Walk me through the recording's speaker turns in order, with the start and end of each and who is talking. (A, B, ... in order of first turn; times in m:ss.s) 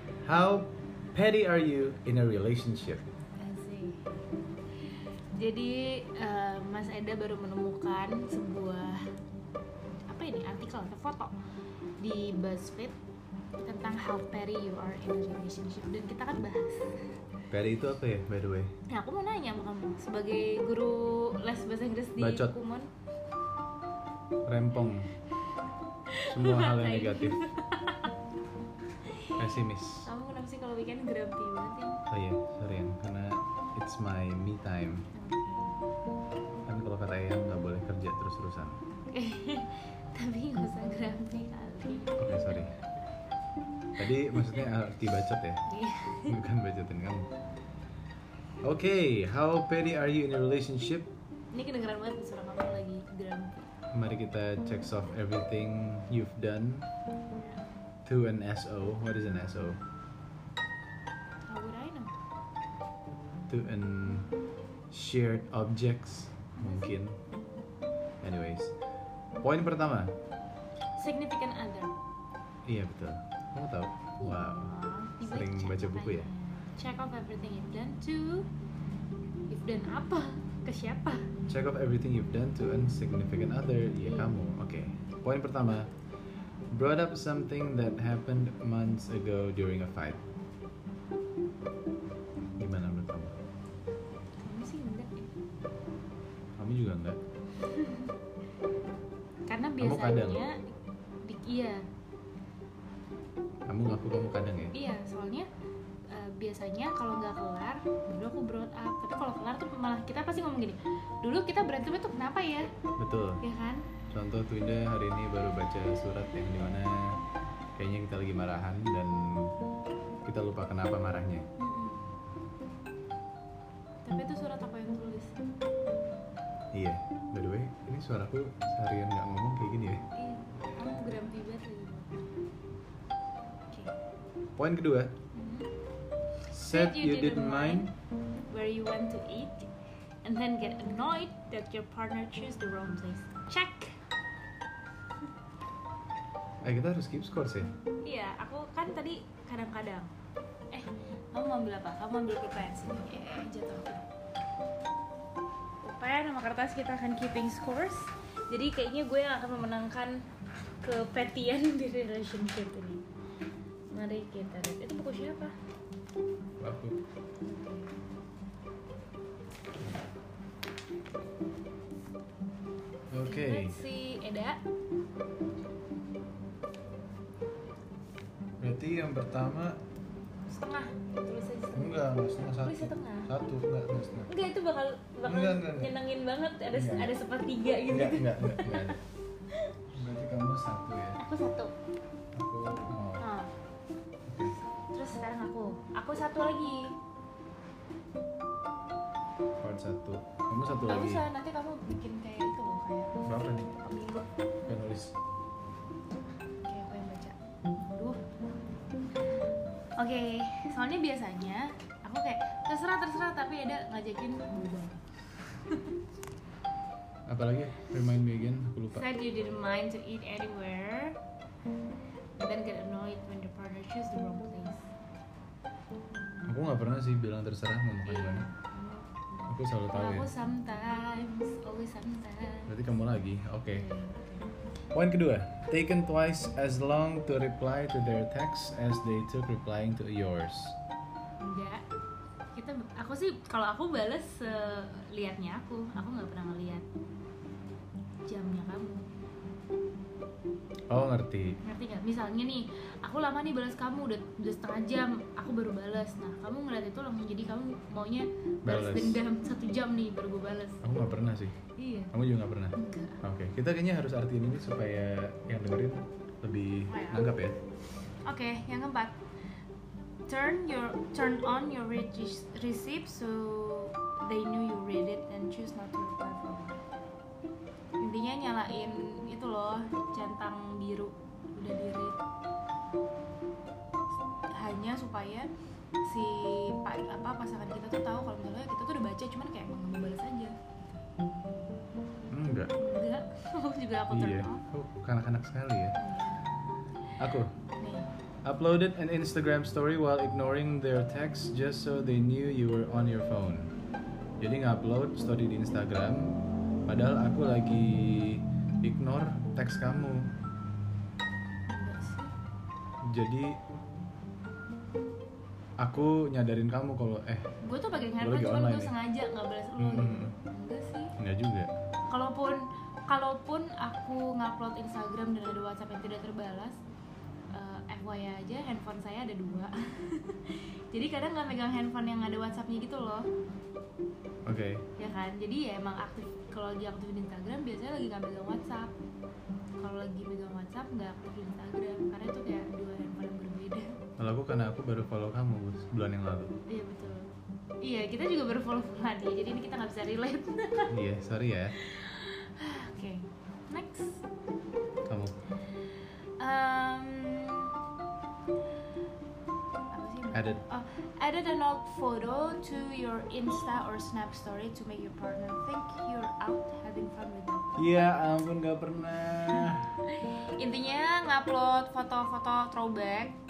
0:00.2-0:03.1 A
0:03.4-0:04.2 B
0:05.3-0:09.0 B
0:10.1-0:11.3 B
0:12.0-0:13.0 B
0:13.6-0:17.2 B
0:17.5-0:18.7 A
0:18.9-0:22.9 B
0:22.2-0:22.5 A
0:24.4-0:25.1 A
0:26.1-0:28.1 B
0:26.2-0:27.4 A
0:29.0-0:29.4 B
0:29.4-0:30.0 A
0:30.0-0:32.0 B
0:32.1-0:35.0 A
0:35.1-0:35.7 B
0:36.7-0:38.8 A
0:39.0-0:42.9 B
0:42.2-0:42.7 A
0:44.0-0:45.6 A
0:44.3-0:44.6 B
0:45.7-0:46.4 B
0:46.3-0:47.3 A
0:48.6-0:51.1 A
0:51.5-0:53.7 B
0:53.9-0:56.9 A
0:58.0-0:59.8 A
1:01.4-1:02.1 B
1:03.5-1:04.3 A
1:04.9-1:07.2 A
1:06.6-1:06.9 B
1:08.2-1:08.7 A
1:09.4-1:10.1 A
1:11.0-1:11.9 B
1:12.6-1:16.3 A
1:14.2-1:18.5 B
1:19.5-1:21.3 B
1:21.5-1:25.9 A
1:24.0-1:24.3 B
1:26.7-1:30.2 A
1:32.6-1:33.4 A
1:34.4-1:35.3 B
1:36.6-1:37.2 A
1:37.6-1:38.1 B
1:39.5-1:40.6 B
1:39.8-1:40.4 A
1:41.2-1:41.8 B
1:43.7-1:44.7 A
1:44.7-1:45.5 B
1:46.1-1:52.7 B
1:53.0-1:53.4 A
1:53.4-1:53.9 B
1:54.1-1:57.2 A
1:57.8-1:59.5 A
2:00.2-2:01.4 A
2:01.6-2:02.0 B
2:04.0-2:05.4 B
2:06.7-2:10.0 A
2:10.1-2:12.2 B
2:14.6-2:15.1 A
2:15.3-2:15.7 B
2:16.5-2:17.9 A
2:16.6-2:17.8 B
2:18.5-2:19.7 B
2:20.2-2:24.0 B
2:26.6-2:27.7 A
2:28.0-2:30.1 B
2:30.7-2:34.0 B
2:35.8-2:40.2 B
2:40.8-2:43.0 B
2:43.9-2:45.5 B
2:46.6-2:47.0 A
2:47.4-2:47.9 B
2:53.1-2:53.8 A
2:53.2-2:54.6 B
2:58.6-2:59.8 A
3:00.5-3:02.0 B
3:01.7-3:04.3 A
3:02.6-3:03.3 B
3:04.3-3:09.0 B
3:05.2-3:05.9 A
3:06.7-3:07.1 A
3:07.9-3:09.0 A
3:09.9-3:11.2 A
3:11.2-3:11.7 B
3:12.3-3:13.3 A
3:13.2-3:13.5 B
3:14.2-3:14.6 A
3:14.9-3:17.0 B
3:19.6-3:21.2 A
3:20.7-3:24.3 B
3:23.2-3:23.7 A
3:24.7-3:25.1 A
3:26.6-3:28.2 B
3:30.0-3:35.0 B
3:35.6-3:35.9 B
3:37.3-3:39.0 A
3:38.9-3:41.2 B
3:42.4-3:44.9 B
3:46.4-3:48.5 A
3:48.0-3:52.9 B
3:49.5-3:50.3 A
3:52.7-3:53.9 A
3:53.7-3:54.5 B
3:54.9-4:00.8 A
4:01.4-4:01.8 B
4:02.5-4:06.8 B
4:08.3-4:09.0 B
4:10.9-4:11.6 A
4:11.6-4:20.8 B
4:18.6-4:19.2 A
4:20.8-4:21.6 A
4:21.8-4:22.1 B
4:22.1-4:27.6 A
4:22.7-4:23.2 B
4:26.9-4:27.3 B
4:28.2-4:29.2 B
4:30.3-4:36.8 B
4:38.0-4:42.2 B
4:44.5-4:45.5 B
4:46.0-4:50.5 B
4:52.3-4:52.7 A
4:52.8-4:54.6 B
4:54.1-4:56.0 A
4:56.0-4:56.4 B
4:57.2-4:57.5 A
4:57.8-4:58.1 B
4:58.4-5:03.7 A
5:04.4-5:10.3 A
5:11.7-5:12.3 B
5:13.0-5:13.6 A
5:15.8-5:17.5 A
5:17.6-5:21.1 B
5:18.2-5:18.9 A
5:19.8-5:20.3 A
5:21.2-5:21.7 A
5:22.1-5:26.8 B
5:27.5-5:33.3 B
5:34.4-5:34.8 A
5:35.0-5:38.9 B
5:39.8-5:44.0 B
5:44.2-5:46.5 A
5:46.7-5:47.3 B
5:47.8-5:50.9 B
5:50.9-5:51.8 A
5:51.7-5:54.2 B
5:55.1-5:55.3 A
5:56.4-5:57.7 B
5:59.9-6:07.9 B
6:00.3-6:00.6 A
6:07.8-6:09.9 A
6:10.0-6:13.4 B